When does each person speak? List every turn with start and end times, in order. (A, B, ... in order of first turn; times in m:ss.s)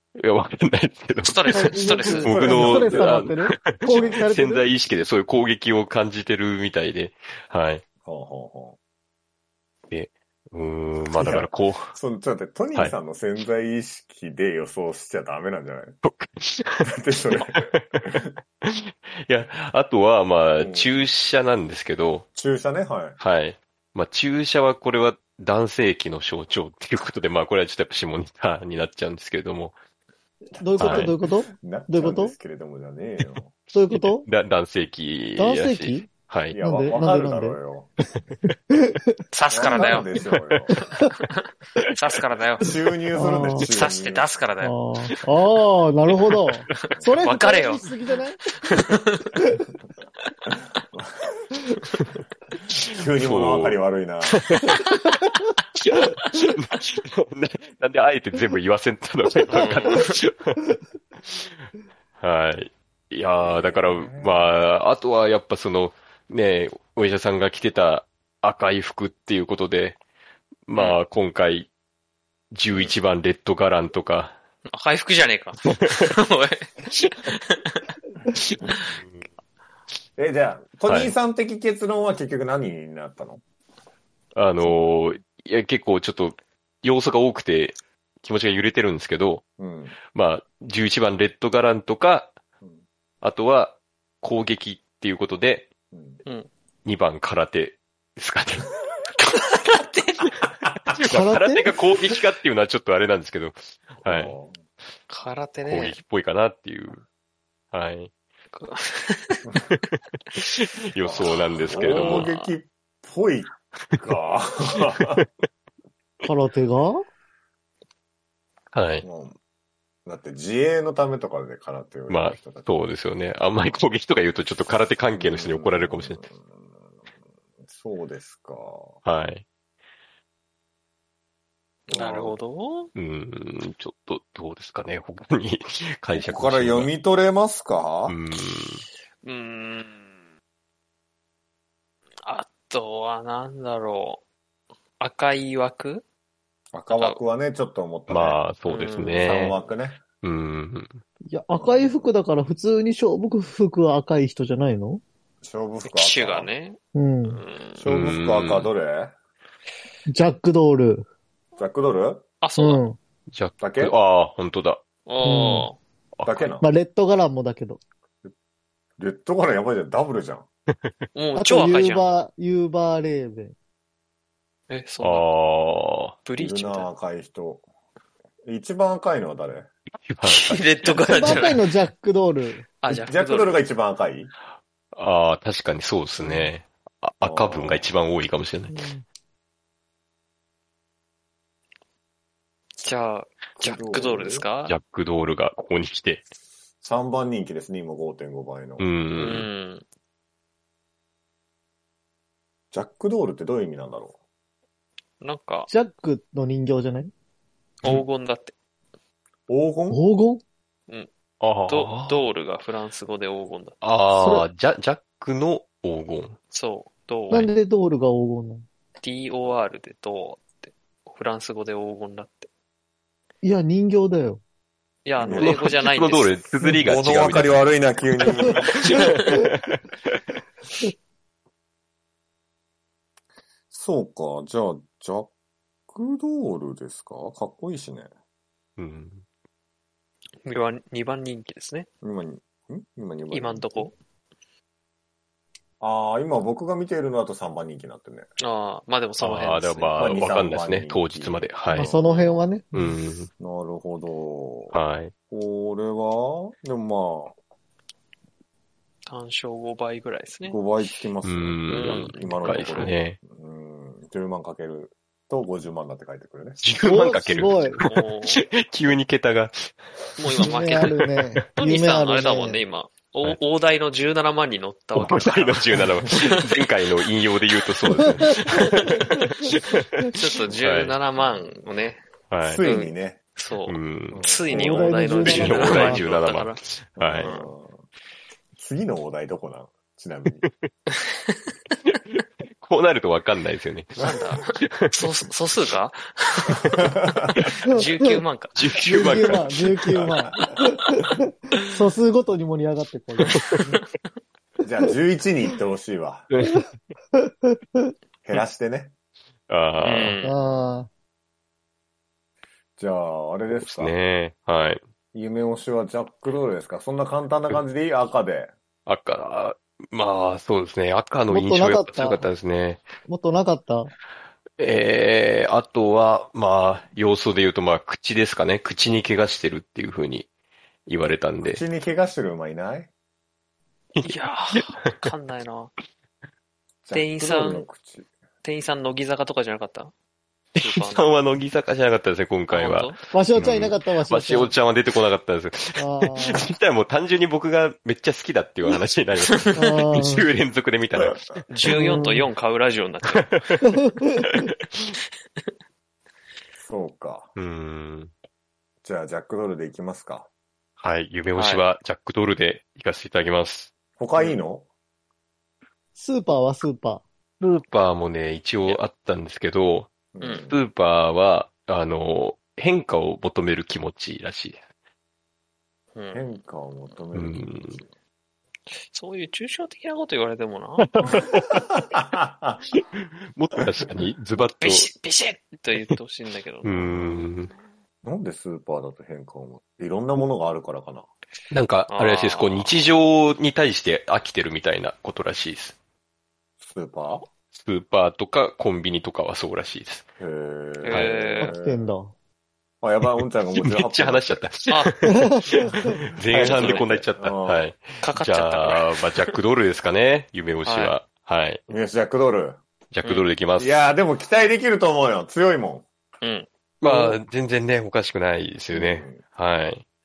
0:00.2-0:07.8 A
0:01.2-0:02.3 B
0:01.5-0:04.7 C
0:02.1-0:03.2 D
0:08.0-0:08.8 D
0:09.9-0:11.9 A
0:11.1-0:16.0 D
0:16.0-0:16.9 A
0:16.8-0:18.3 D
0:17.5-0:22.3 A
0:20.6-0:20.9 D
0:22.4-0:23.2 D
0:23.2-0:29.8 A
0:30.6-0:32.3 C
0:30.7-0:33.5 D
0:30.8-0:31.2 A
0:33.7-0:34.3 C
0:33.9-0:36.6 A
0:35.4-0:37.6 C
0:36.5-0:37.9 D
0:38.7-0:39.2 C
0:39.3-0:40.1 B
0:39.5-0:40.8 D
0:41.9-0:42.7 B
0:42.6-0:44.3 D
0:43.2-0:43.7 C
0:43.6-0:44.8 B
0:44.6-0:48.4 C
0:47.2-0:47.9 B
0:48.7-0:49.3 B
0:50.9-0:51.4 D
0:52.8-0:54.5 D
0:53.2-0:54.8 A
0:55.8-1:00.6 A
0:59.5-1:00.2 B
1:01.3-1:01.6 A
1:02.2-1:10.0 A
1:03.4-1:04.5 D
1:10.7-1:11.7 A
1:12.5-1:14.4 A
1:14.7-1:16.7 B
1:17.3-1:17.8 B
1:18.3-1:19.1 A
1:20.2-1:23.4 D
1:20.9-1:21.1 A
1:24.4-1:29.4 A
1:29.6-1:30.0 D
1:30.1-1:32.3 A
1:33.2-1:35.7 A
1:35.9-1:36.2 D
1:36.8-1:38.7 A
1:39.2-1:40.3 B
1:40.9-1:44.4 A
1:41.0-1:41.7 C
1:44.0-1:44.6 D
1:45.1-1:46.0 B
1:45.6-1:47.0 A
1:47.7-1:48.1 A
1:48.5-1:49.5 B
1:50.4-1:52.3 A
1:51.0-1:55.3 D
1:51.8-1:52.5 B
1:56.2-1:57.0 C
1:58.7-1:59.1 A
1:59.0-1:59.4 D
2:00.1-2:02.7 D
2:02.1-2:06.2 A
2:05.1-2:06.7 D
2:07.7-2:09.0 D
2:09.0-2:09.4 A
2:11.9-2:12.9 B
2:11.9-2:12.4 D
2:13.0-2:16.9 A
2:16.1-2:18.2 D
2:18.1-2:18.8 A
2:19.2-2:20.2 B
2:22.2-2:24.2 B
2:25.0-2:26.0 B
2:26.7-2:28.4 D
2:26.9-2:27.2 B
2:28.1-2:29.6 A
2:28.7-2:29.4 B
2:29.1-2:30.0 D
2:30.2-2:31.0 A
2:31.3-2:35.0 C
2:31.6-2:32.1 D
2:35.4-2:36.5 D
2:35.8-2:37.8 B
2:37.0-2:37.4 C
2:37.8-2:39.1 D
2:37.8-2:38.7 A
2:40.1-2:41.1 C
2:41.6-2:42.2 D
2:42.4-2:42.8 B
2:42.6-2:43.0 C
2:43.3-2:44.8 A
2:43.6-2:44.0 D
2:45.1-2:45.8 B
2:45.2-2:45.7 C
2:46.2-2:46.5 A
2:46.2-2:46.7 D
2:46.6-2:47.8 C
2:49.0-2:50.5 D
2:51.2-2:52.1 B
2:51.4-2:53.5 C
2:54.7-2:55.3 B
2:55.0-2:56.2 A
2:56.3-2:56.9 B
2:56.4-2:57.6 D
2:58.4-2:59.7 D
3:00.0-3:00.6 A
3:00.2-3:01.7 B
3:00.9-3:02.7 C
3:02.8-3:03.6 B
3:02.9-3:04.3 D
3:04.9-3:08.8 A
3:07.2-3:07.9 D
3:08.7-3:09.0 C
3:12.8-3:14.8 B
3:13.6-3:14.5 D
3:14.7-3:16.2 A
3:16.8-3:18.9 D
3:18.8-3:19.5 A
3:19.1-3:19.8 B
3:22.7-3:24.2 D
3:25.2-3:25.7 B
3:25.7-3:27.1 C
3:27.8-3:28.5 B
3:29.5-3:30.0 D
3:29.9-3:30.4 C
3:31.4-3:32.2 A
3:31.7-3:33.8 B
3:33.8-3:36.4 A
3:34.1-3:34.5 C
3:36.5-3:37.5 B
3:37.3-3:38.7 C
3:39.0-3:42.5 B
3:43.4-3:44.4 C
3:45.0-3:46.4 B
3:45.2-3:45.6 D
3:45.4-3:47.7 A
3:46.6-3:48.9 D
3:48.7-3:50.2 A
3:48.8-3:49.4 B
3:53.7-3:55.3 D
3:55.9-3:58.1 D
3:58.8-3:59.2 A
4:00.4-4:01.9 B
4:02.0-4:03.9 D
4:03.3-4:04.0 B
4:05.8-4:08.3 D
4:08.4-4:10.2 B
4:09.2-4:11.9 A
4:09.9-4:11.5 D
4:11.7-4:13.0 C
4:11.8-4:12.4 B
4:12.7-4:13.3 A
4:13.4-4:14.8 D
4:14.7-4:15.1 A
4:15.3-4:17.4 D
4:19.1-4:20.6 B
4:20.5-4:26.6 D
4:21.2-4:23.2 A
4:26.6-4:29.8 A
4:26.9-4:27.8 C
4:27.9-4:28.4 B
4:30.2-4:31.0 B
4:30.3-4:32.6 C
4:30.3-4:30.9 A
4:31.6-4:36.4 B
4:35.0-4:41.0 A
4:40.1-4:42.0 B
4:42.3-4:42.6 A
4:42.4-4:43.2 D
4:42.6-4:46.6 B
4:43.7-4:44.2 A
4:44.1-4:45.8 D
4:44.5-4:46.1 C
4:45.2-4:47.3 A
4:47.0-4:47.8 D
4:47.2-4:47.5 B
4:48.6-4:50.4 D
4:50.9-4:51.4 B
4:52.1-4:54.9 A
4:54.0-4:56.9 B
4:56.8-4:57.3 D
4:57.6-4:58.6 B
4:58.5-5:00.2 A
4:58.9-5:03.8 C
4:59.9-5:00.2 D
5:03.3-5:03.6 A
5:04.6-5:06.3 D
5:06.3-5:06.6 A
5:07.1-5:07.9 C
5:08.2-5:08.9 D
5:09.5-5:10.2 A
5:09.8-5:10.4 B
5:10.2-5:10.9 C
5:12.8-5:13.9 D
5:13.5-5:14.8 A
5:15.1-5:18.5 D
5:18.9-5:22.9 A
5:21.3-5:22.3 C
5:23.1-5:23.9 C
5:24.6-5:30.3 A
5:30.9-5:31.6 A
5:31.4-5:32.9 D
5:34.0-5:35.1 A
5:34.0-5:35.7 B
5:36.8-5:38.1 D
5:36.9-5:37.7 B
5:38.4-5:39.9 B
5:40.6-5:51.2 A
5:40.6-5:41.2 B
5:42.5-5:43.0 B
5:43.1-5:44.5 C
5:45.8-5:46.5 C
5:49.4-5:49.7 B
5:49.6-5:50.3 C
5:51.0-5:51.3 D
5:51.5-5:53.5 B
5:51.6-5:52.3 C
5:53.2-5:54.9 A
5:53.7-5:54.3 C
5:56.6-5:57.3 D
5:57.4-5:58.1 A
5:58.8-6:00.3 D
6:00.8-6:03.7 A
6:01.4-6:01.6 B
6:04.0-6:04.7 D
6:06.0-6:07.0 C
6:07.4-6:09.9 A
6:10.1-6:10.6 D
6:10.2-6:10.5 B
6:10.5-6:14.6 A
6:16.0-6:16.3 B
6:16.1-6:17.9 D
6:17.1-6:17.8 A
6:18.9-6:20.9 B
6:20.8-6:21.7 A
6:21.5-6:22.6 D
6:22.7-6:24.9 A
6:24.6-6:27.3 B
6:26.6-6:27.5 A
6:28.0-6:31.1 D
6:31.5-6:35.8 A
6:31.9-6:32.7 B
6:36.6-6:37.3 D
6:37.5-6:40.0 A
6:40.2-6:41.9 D
6:40.8-6:41.5 B
6:40.9-6:41.2 A
6:41.4-6:42.1 C
6:42.8-6:44.4 D
6:43.1-6:51.6 A
6:44.7-6:45.0 B
6:46.3-6:47.0 B
6:46.3-6:47.7 D
6:48.0-6:49.3 B
6:50.7-6:50.9 B
6:51.7-6:52.6 D
6:52.9-6:53.8 A
6:53.6-6:55.9 D
6:56.2-6:56.5 B
6:56.8-6:59.8 A
6:56.8-6:57.2 D
6:58.7-6:59.2 D